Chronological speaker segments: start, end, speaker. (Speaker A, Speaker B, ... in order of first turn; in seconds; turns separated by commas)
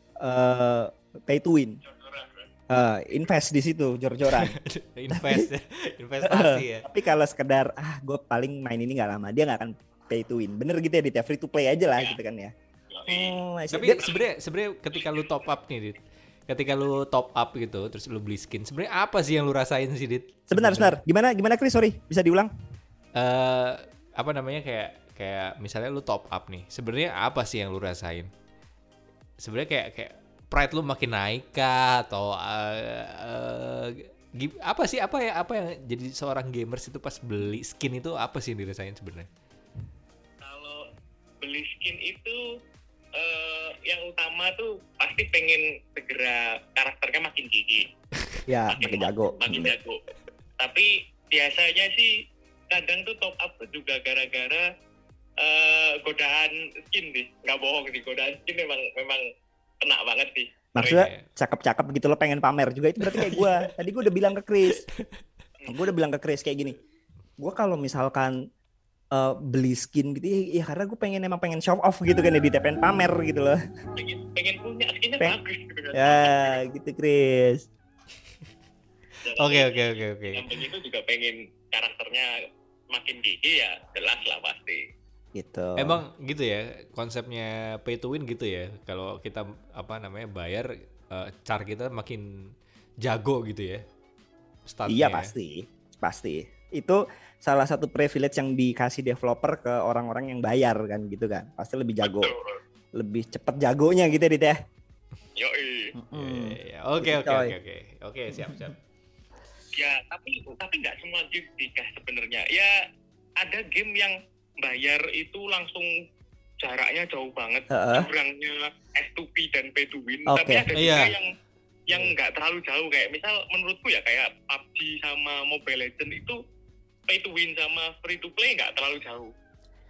Speaker A: 0.2-1.8, Speaker B: 1.8-2.5, Speaker A: 2.7-4.5, Speaker C: 4.2-6.9, Speaker A: 5.1-5.5, Speaker A: 6.2-12.5, Speaker B: 12.9-13.4, Speaker A: 13.1-14.1, Speaker C: 13.7-21.0, Speaker A: 20.5-22.5, Speaker C: 23.1-28.3, Speaker C: 29.4-39.3, Speaker B: 40.4-40.8, Speaker B: 41.4-42.4, Speaker B: 43.1-47.9, Speaker A: 48.5-49.7, Speaker B: 48.7-50.0, Speaker B: 50.6-52.1, Speaker B: 52.7-54.6, Speaker B: 55.4-59.2, Speaker B: 59.8-61.0, Speaker A: 60.8-64.8, Speaker C: 60.8-61.2, Speaker C: 63.0-63.7, Speaker A: 65.7-66.8, Speaker A: 67.4-68.3, Speaker A: 69.1-73.6, Speaker B: 74.0-76.6, Speaker A: 75.9-77.6, Speaker B: 79.2-82.3, Speaker C: 79.3-80.5, Speaker B: 82.9-84.8, Speaker A: 85.3-86.0, Speaker C: 85.8-93.8, Speaker C: 94.7-95.3, Speaker A: 94.9-102.3, Speaker B: 102.0-102.6, Speaker A: 103.0-104.6, Speaker B: 105.4-105.9, Speaker A: 106.0-107.5, Speaker C: 106.1-108.8, Speaker B: 109.7-112.7, Speaker B: 113.4-115.9, Speaker B: 116.6-121.3, Speaker A: 117.7-118.1, Speaker A: 120.3-120.7, Speaker C: 120.7-121.1, Speaker B: 121.9-126.4, Speaker B: 127.1-129.3